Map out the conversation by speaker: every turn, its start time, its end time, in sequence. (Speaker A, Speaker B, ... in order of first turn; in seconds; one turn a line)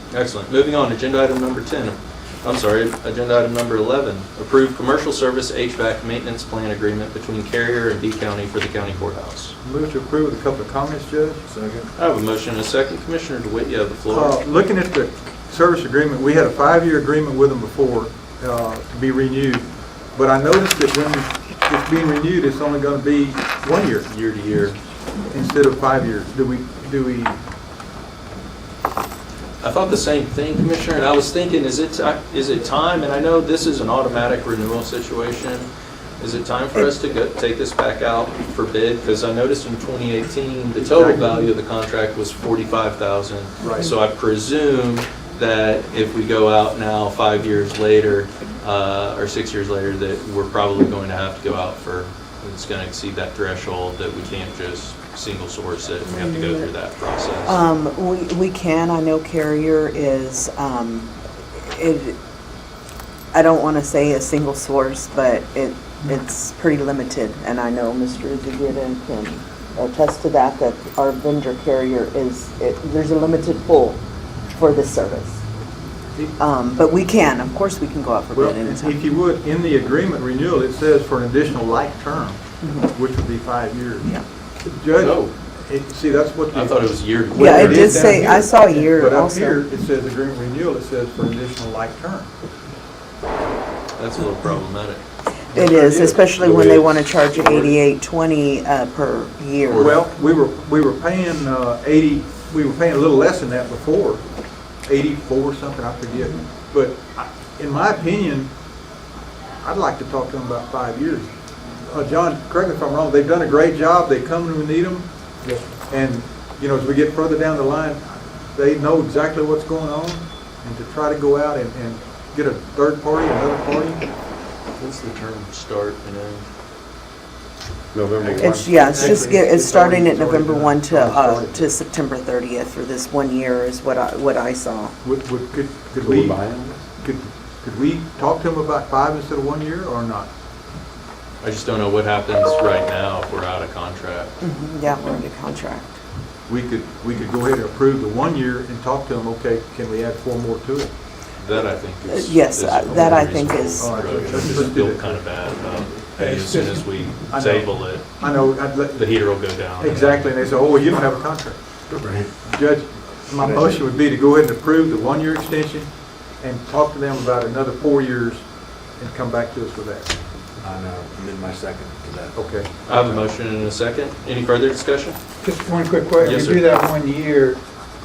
Speaker A: 0.1-9.5
Speaker B: 9.6-11.4
Speaker C: 11.5-11.9
Speaker A: 11.9-14.4
Speaker B: 14.1-24.1
Speaker A: 24.1-24.8
Speaker B: 25.3-27.4
Speaker A: 29.6-35.7
Speaker A: 36.2-57.6
Speaker B: 40.8-41.5
Speaker B: 43.6-43.9
Speaker D: 56.0-56.7
Speaker D: 57.4-62.1
Speaker D: 63.3-74.0
Speaker D: 74.5-75.4
Speaker D: 76.4-79.0
Speaker B: 78.3-92.3
Speaker D: 82.6-82.9
Speaker A: 85.0-85.3
Speaker A: 86.5-88.0
Speaker D: 87.3-89.6
Speaker A: 94.0-95.0
Speaker B: 95.5-96.2
Speaker D: 95.5-100.0
Speaker A: 96.4-97.7
Speaker A: 99.6-100.0
Speaker B: 99.7-104.2
Speaker B: 104.8-108.5
Speaker D: 106.2-106.4
Speaker B: 109.6-124.1
Speaker A: 124.8-126.5
Speaker C: 127.9-128.8
Speaker B: 128.1-131.7
Speaker D: 128.4-134.9
Speaker B: 135.0-136.4
Speaker C: 136.0-136.8
Speaker B: 136.9-140.3
Speaker A: 141.4-144.3
Speaker D: 144.4-146.0
Speaker B: 146.5-150.9
Speaker A: 151.4-158.2
Speaker D: 152.1-154.4
Speaker B: 153.8-155.3
Speaker E: 156.2-157.1
Speaker B: 157.3-161.8
Speaker A: 158.9-160.3
Speaker C: 161.9-162.3
Speaker B: 162.4-170.2
Speaker C: 163.3-163.9
Speaker C: 170.6-173.2
Speaker B: 172.3-172.9
Speaker A: 172.9-175.2
Speaker E: 175.4-177.6
Speaker A: 176.2-176.7
Speaker B: 176.2-176.5